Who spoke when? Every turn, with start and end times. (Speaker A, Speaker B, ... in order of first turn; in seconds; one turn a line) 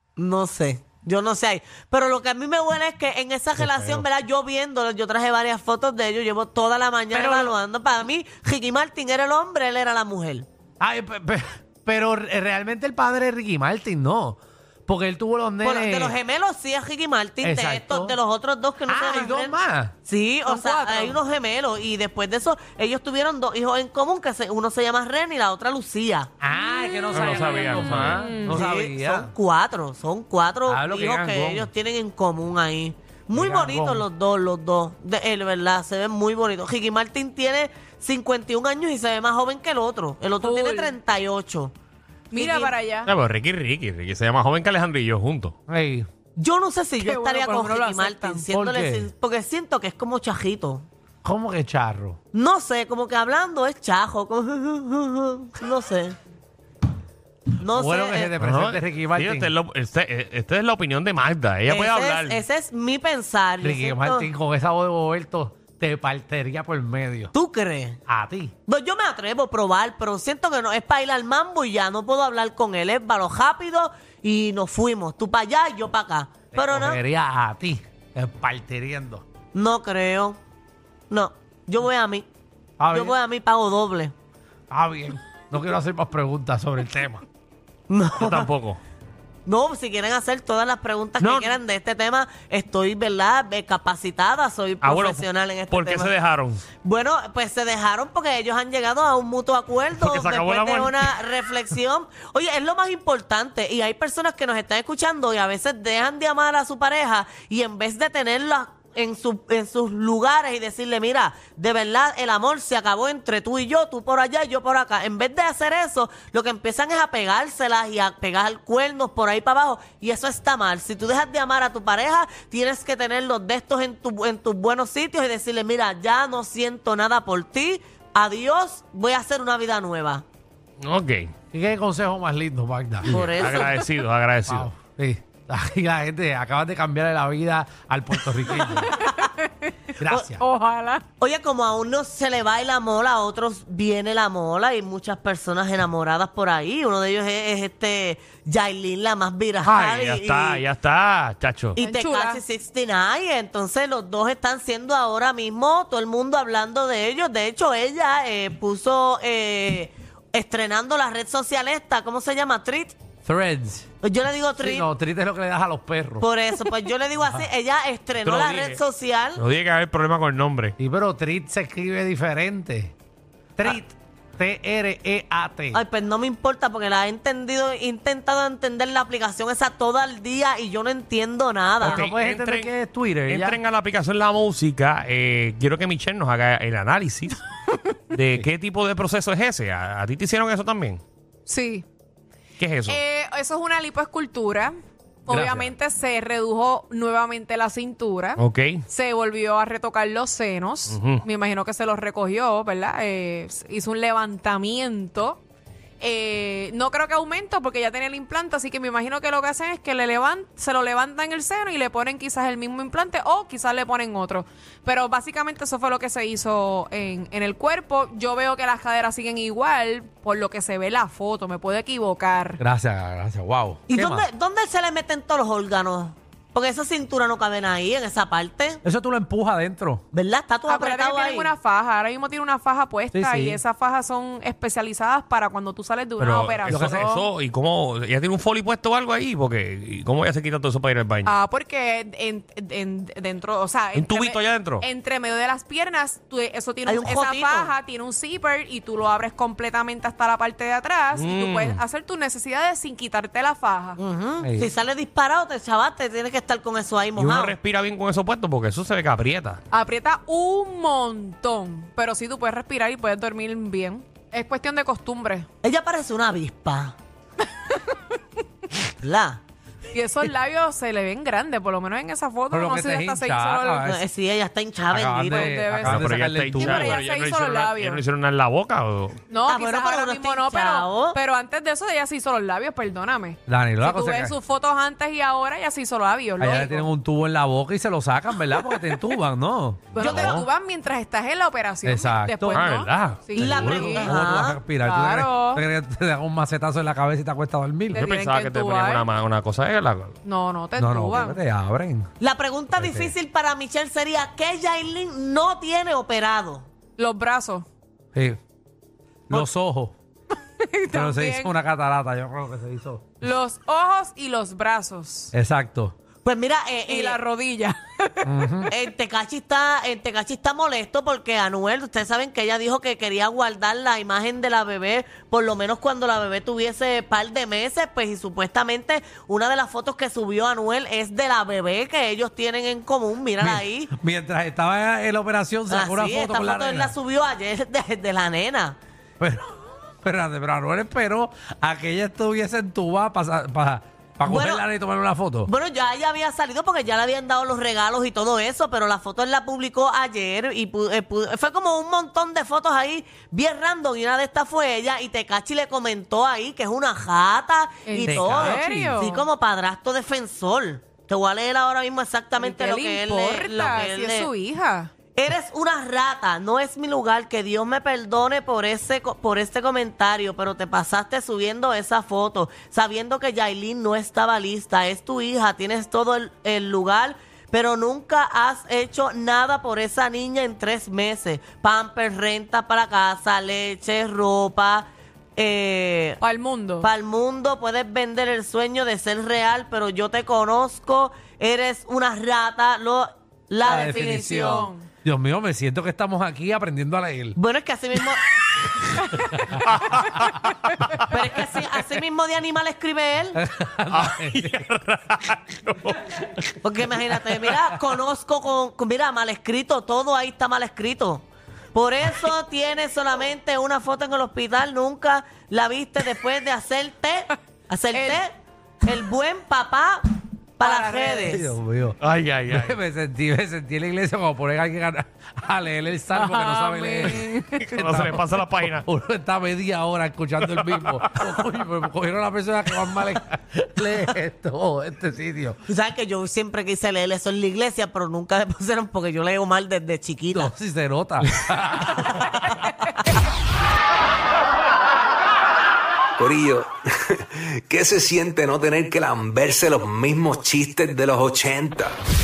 Speaker A: 0.2-10.5
Speaker B: 3.6-4.0
Speaker B: 7.1-7.5
Speaker B: 10.8-16.1
Speaker A: 15.6-26.3
Speaker B: 17.4-18.2
Speaker B: 18.9-19.9
Speaker C: 20.4-21.2
Speaker B: 26.4-29.3
Speaker C: 26.5-28.6
Speaker D: 27.1-28.3
Speaker A: 28.3-41.7
Speaker B: 30.7-31.7
Speaker B: 33.4-34.0
Speaker C: 40.4-41.0
Speaker C: 42.3-43.1
Speaker A: 42.3-42.7
Speaker D: 43.0-45.5
Speaker B: 45.7-46.1
Speaker A: 46.4-50.9
Speaker C: 47.0-48.5
Speaker B: 48.5-49.1
Speaker B: 51.2-52.2
Speaker A: 52.3-56.1
Speaker A: 57.5-58.3
Speaker B: 57.6-59.5
Speaker D: 58.4-62.4
Speaker A: 61.7-64.3
Speaker B: 63.6-67.3
Speaker A: 67.3-68.0
Speaker B: 68.1-68.5
Speaker A: 68.7-77.0
Speaker B: 76.5-79.2
Speaker A: 79.5-80.4
Speaker A: 81.1-82.2
Speaker B: 82.8-83.2
Speaker A: 82.9-84.1
Speaker B: 84.7-87.2
Speaker A: 87.9-88.5
Speaker D: 88.2-88.8
Speaker A: 89.5-96.1
Speaker D: 91.2-91.5
Speaker D: 94.8-96.6
Speaker A: 96.8-130.2
Speaker D: 99.9-101.1
Speaker D: 130.8-131.3
Speaker B: 131.5-133.3
Speaker A: 133.1-133.8
Speaker D: 133.1-134.7
Speaker B: 134.5-138.9
Speaker C: 138.3-141.0
Speaker B: 140.0-140.4
Speaker A: 141.2-150.6
Speaker D: 149.6-151.8
Speaker A: 151.8-162.9
Speaker C: 151.8-152.4
Speaker B: 163.2-163.9
Speaker A: 164.0-164.9
Speaker B: 164.6-166.2
Speaker A: 166.2-169.4
Speaker D: 168.2-168.8
Speaker D: 169.3-170.7
Speaker B: 170.8-172.9
Speaker B: 173.6-175.8
Speaker A: 175.7-182.1
Speaker D: 181.8-187.4
Speaker B: 181.8-183.6
Speaker D: 188.1-191.0
Speaker C: 191.5-191.8
Speaker D: 192.6-193.0
Speaker C: 192.8-194.7
Speaker C: 195.2-205.4
Speaker B: 195.3-195.7
Speaker D: 198.4-198.8
Speaker D: 200.9-201.2
Speaker C: 206.0-222.6
Speaker B: 222.6-224.2
Speaker A: 223.9-228.8
Speaker B: 228.9-230.0
Speaker A: 230.1-231.5
Speaker C: 230.7-237.3
Speaker B: 233.1-233.6
Speaker D: 236.2-241.3
Speaker B: 236.7-237.0
Speaker C: 241.2-254.0
Speaker D: 243.9-244.8
Speaker A: 246.8-247.7
Speaker D: 251.1-251.8
Speaker A: 254.0-257.6
Speaker B: 254.4-254.7
Speaker D: 257.2-259.6
Speaker C: 259.7-265.4
Speaker A: 265.6-266.9
Speaker C: 267.7-268.0
Speaker A: 268.9-269.4
Speaker C: 269.9-273.8
Speaker B: 272.5-274.0
Speaker A: 273.8-275.6
Speaker B: 274.9-276.9
Speaker C: 275.3-276.0
Speaker D: 275.8-279.2
Speaker C: 276.6-278.0
Speaker C: 279.3-286.9
Speaker A: 279.4-281.2
Speaker B: 283.5-284.3
Speaker B: 286.4-290.0
Speaker C: 289.9-294.1
Speaker D: 290.0-290.5
Speaker B: 291.8-292.6
Speaker D: 292.5-293.8
Speaker A: 293.4-294.6
Speaker B: 293.5-298.0
Speaker C: 294.8-295.6
Speaker C: 297.9-299.1
Speaker D: 297.9-300.1
Speaker C: 300.2-301.4
Speaker B: 300.8-302.1
Speaker A: 302.2-306.7
Speaker B: 302.8-303.1
Speaker C: 307.0-307.6
Speaker B: 308.1-308.4
Speaker B: 309.3-309.9
Speaker C: 310.6-311.6
Speaker B: 311.0-313.1
Speaker C: 313.2-315.3
Speaker B: 315.4-315.9
Speaker A: 316.2-317.2
Speaker C: 316.9-318.7
Speaker B: 318.2-318.7
Speaker A: 318.7-333.9
Speaker B: 333.4-336.9
Speaker A: 335.7-338.8
Speaker B: 340.0-345.5
Speaker A: 344.2-344.6
Speaker A: 345.4-364.3
Speaker C: 357.9-359.2
Speaker B: 358.1-358.9
Speaker C: 362.4-364.9
Speaker A: 365.1-386.2
Speaker C: 386.2-386.9
Speaker A: 386.8-394.7
Speaker C: 393.6-394.9
Speaker B: 393.7-397.4
Speaker A: 397.4-398.9
Speaker C: 398.9-399.4
Speaker D: 399.5-400.3
Speaker C: 400.5-401.0
Speaker D: 400.8-401.4
Speaker A: 401.1-403.4
Speaker B: 403.4-404.4
Speaker D: 403.9-406.5
Speaker A: 406.6-418.3
Speaker D: 407.1-407.5
Speaker C: 417.9-418.2
Speaker A: 418.8-420.0
Speaker A: 420.6-421.5
Speaker C: 420.6-421.4
Speaker B: 421.3-422.0
Speaker D: 422.0-422.8
Speaker B: 422.5-427.1
Speaker C: 426.1-427.7
Speaker D: 427.6-428.9
Speaker B: 427.7-428.2
Speaker B: 428.7-435.6
Speaker D: 430.4-431.5
Speaker A: 435.7-440.5
Speaker B: 440.3-441.9
Speaker E: 446.2-451.9